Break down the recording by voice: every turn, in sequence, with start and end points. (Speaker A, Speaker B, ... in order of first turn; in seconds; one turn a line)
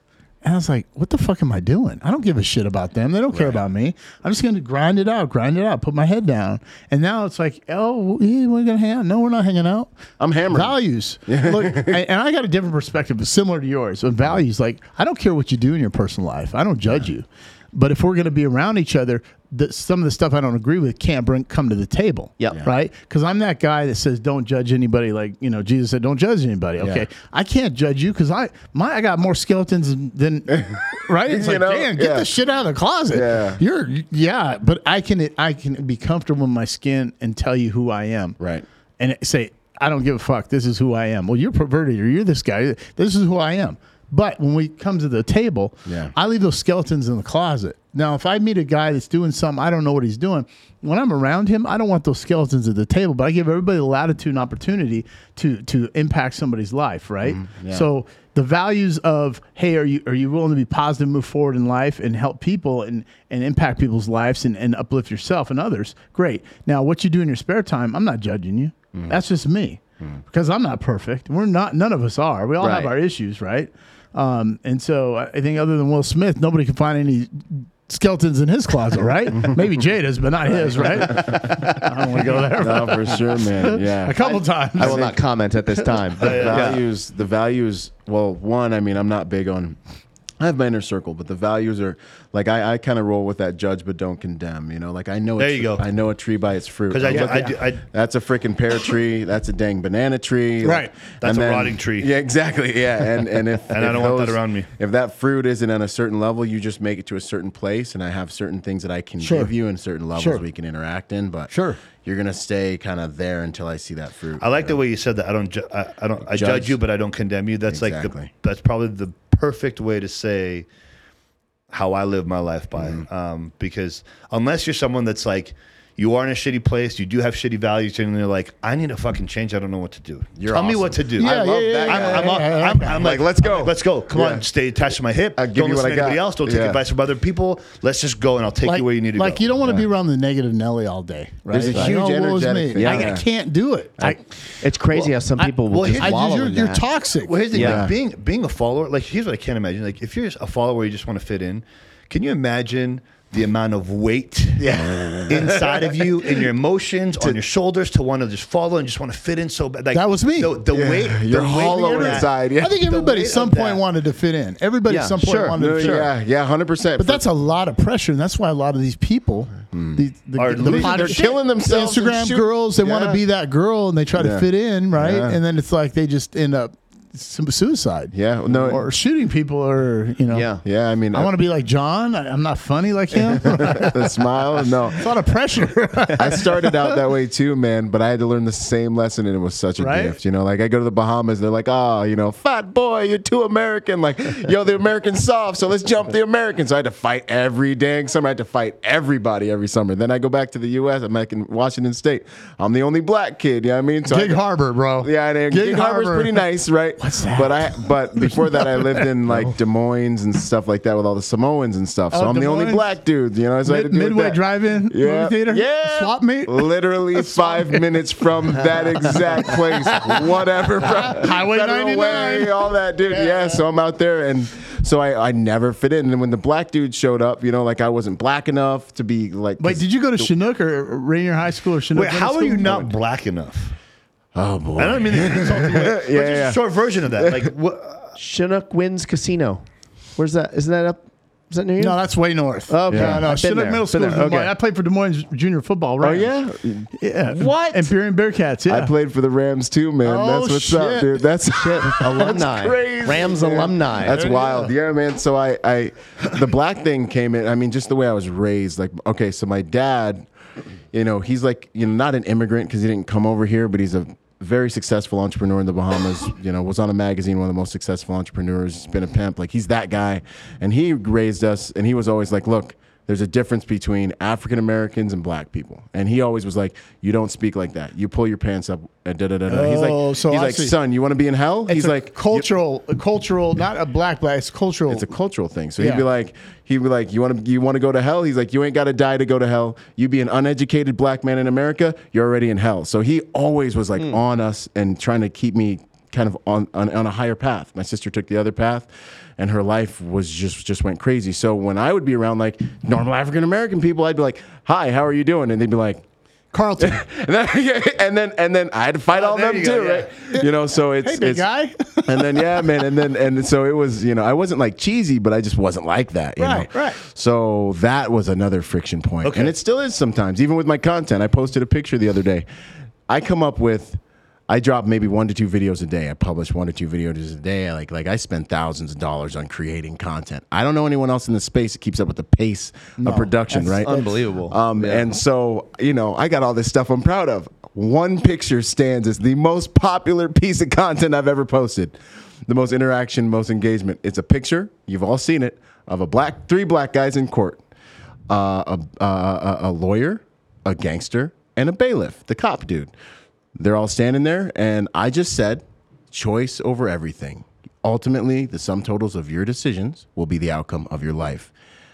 Speaker A: 0.4-9.9
Speaker B: 3.3-3.6
Speaker B: 10.2-10.8
Speaker A: 10.5-38.4
Speaker B: 11.3-12.0
Speaker B: 26.8-27.1
Speaker B: 30.6-32.3
Speaker B: 33.1-33.6
Speaker B: 38.4-38.7
Speaker A: 39.0-85.1
Speaker B: 45.9-46.1
Speaker B: 57.2-57.9
Speaker B: 72.6-72.9
Speaker B: 81.1-81.4
Speaker B: 82.5-85.2
Speaker C: 84.8-86.8
Speaker D: 86.2-86.8
Speaker B: 86.2-89.8
Speaker B: 90.4-114.8
Speaker D: 95.4-95.8
Speaker D: 96.9-97.8
Speaker A: 97.0-97.5
Speaker A: 100.6-100.9
Speaker D: 101.2-102.1
Speaker D: 103.7-104.7
Speaker A: 109.2-109.5
Speaker A: 110.2-110.4
Speaker A: 111.5-111.8
Speaker D: 114.4-120.7
Speaker B: 116.3-116.8
Speaker B: 117.7-118.3
Speaker D: 121.7-139.5
Speaker B: 122.8-123.0
Speaker B: 130.4-134.5
Speaker A: 131.2-133.0
Speaker B: 135.4-136.8
Speaker A: 138.6-144.2
Speaker B: 141.5-143.2
Speaker C: 141.6-141.9
Speaker C: 142.8-143.2
Speaker C: 144.0-146.8
Speaker A: 145.4-147.4
Speaker D: 145.7-146.3
Speaker D: 147.2-163.8
Speaker C: 147.5-147.8
Speaker B: 147.5-147.9
Speaker B: 154.6-156.4
Speaker A: 159.9-160.6
Speaker B: 160.7-162.8
Speaker A: 161.7-166.1
Speaker C: 164.9-166.0
Speaker B: 165.6-167.2
Speaker A: 167.0-180.5
Speaker B: 169.7-170.0
Speaker D: 170.4-171.3
Speaker B: 170.6-172.5
Speaker D: 172.9-173.2
Speaker B: 174.2-175.4
Speaker B: 178.1-178.8
Speaker C: 180.3-180.6
Speaker B: 180.6-181.3
Speaker A: 181.1-187.0
Speaker B: 183.2-185.1
Speaker B: 186.1-204.4
Speaker A: 189.8-190.2
Speaker A: 204.1-206.4
Speaker B: 205.0-230.3
Speaker A: 207.0-209.5
Speaker A: 212.1-212.9
Speaker A: 213.7-217.8
Speaker A: 218.7-223.4
Speaker A: 229.6-232.9
Speaker D: 231.9-233.8
Speaker B: 234.3-236.6
Speaker D: 234.8-238.2
Speaker B: 237.1-237.5
Speaker C: 238.2-239.6
Speaker C: 240.2-242.0
Speaker A: 241.8-246.3
Speaker C: 242.7-244.5
Speaker B: 242.9-243.3
Speaker B: 246.0-247.9
Speaker A: 247.0-248.9
Speaker B: 248.7-260.3
Speaker A: 250.0-251.3
Speaker C: 251.5-254.2
Speaker A: 254.0-254.7
Speaker B: 260.9-282.5
Speaker A: 279.5-280.8
Speaker A: 281.7-285.1
Speaker B: 284.9-306.0
Speaker A: 285.8-286.1
Speaker A: 306.5-307.0
Speaker B: 306.8-311.5
Speaker D: 309.1-310.1
Speaker A: 311.0-312.9
Speaker B: 312.1-322.5
Speaker A: 316.4-317.0
Speaker D: 319.2-319.5
Speaker B: 323.1-347.6
Speaker A: 333.0-334.2
Speaker C: 333.7-335.1
Speaker B: 348.3-352.9
Speaker B: 353.6-361.5